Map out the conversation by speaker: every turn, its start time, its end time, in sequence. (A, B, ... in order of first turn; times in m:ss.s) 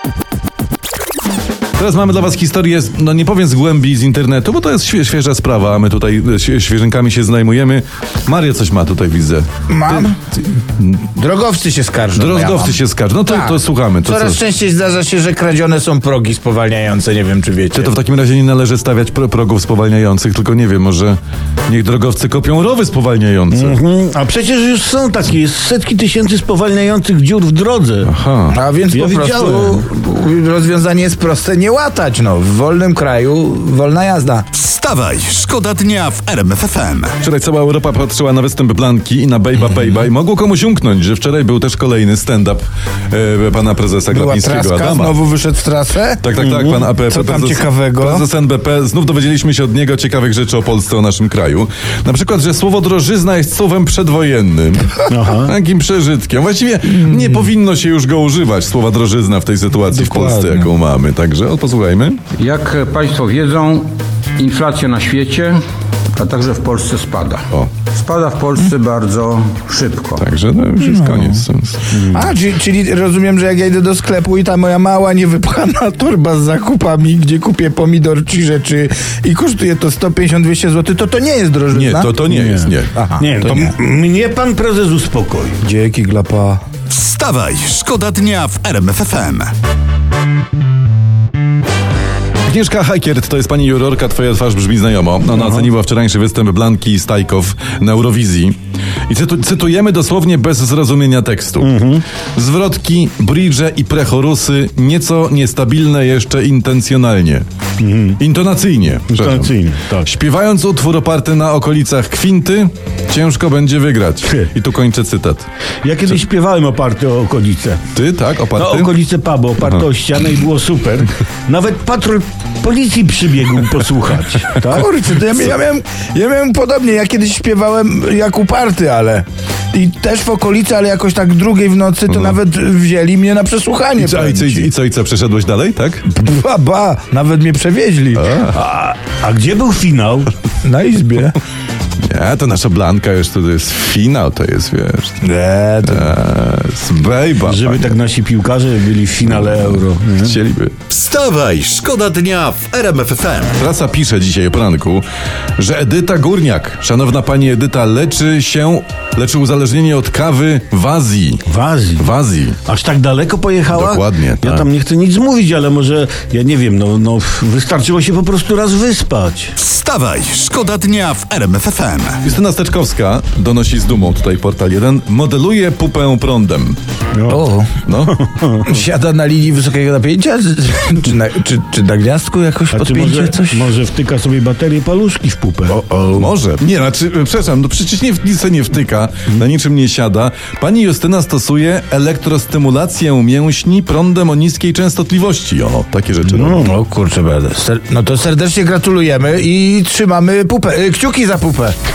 0:01.8-0:10.2 A
0:09.7-0:10.5 B
0:11.0-0:17.9 B
0:12.2-0:14.4 A
0:17.7-0:23.8 A
0:23.5-0:28.1 C
0:28.0-0:28.6 A
0:28.5-0:34.5 B
0:28.9-0:29.8 C
0:34.5-0:37.1 D
0:37.2-0:45.2 A
0:44.1-0:48.2 B
0:46.2-1:02.2 A
0:55.1-0:55.6 C
0:59.9-1:00.7 B
1:02.4-1:05.6 E
1:06.2-1:10.2 E
1:10.2-1:12.0 A
1:10.8-1:11.5 B
1:11.9-1:12.2 C
1:12.1-1:22.2 B
1:21.7-1:23.0 A
1:22.3-1:25.6 C
1:22.9-1:23.8 B
1:25.6-1:26.6 B
1:26.9-1:29.5 D
1:32.5-1:41.8 A
1:35.3-1:35.7 C
1:41.6-1:42.0 C
1:42.4-1:47.5 A
1:47.8-1:48.2 C
1:48.2-1:55.5 A
1:49.1-1:50.1 C
1:55.8-1:57.8 C
1:58.0-1:59.0 A
1:58.5-2:04.9 C
2:04.7-2:14.7 B
2:12.1-2:12.4 A
2:14.0-2:16.0 A
2:16.1-2:18.4 B
2:18.2-2:18.6 A
2:18.5-2:20.3 C
2:20.6-2:21.4 B
2:22.1-2:25.2 A
2:25.2-2:26.1 B
2:25.8-2:28.0 A
2:27.4-2:30.4 C
2:29.3-2:30.8 A
2:30.9-2:33.6 D
2:33.6-2:35.0 A
2:35.6-2:41.5 A
2:41.4-2:42.1 C
2:42.0-2:42.6 A
2:42.6-2:49.5 C
2:43.7-2:44.7 A
2:49.6-2:52.2 D
2:52.2-2:56.8 A
2:57.1-2:57.4 C
2:57.3-2:57.8 B
2:57.9-2:58.2 A
2:58.1-2:58.7 C
2:58.6-3:03.7 B
3:02.7-3:06.3 C
3:06.1-3:16.7 A
3:16.4-3:21.8 B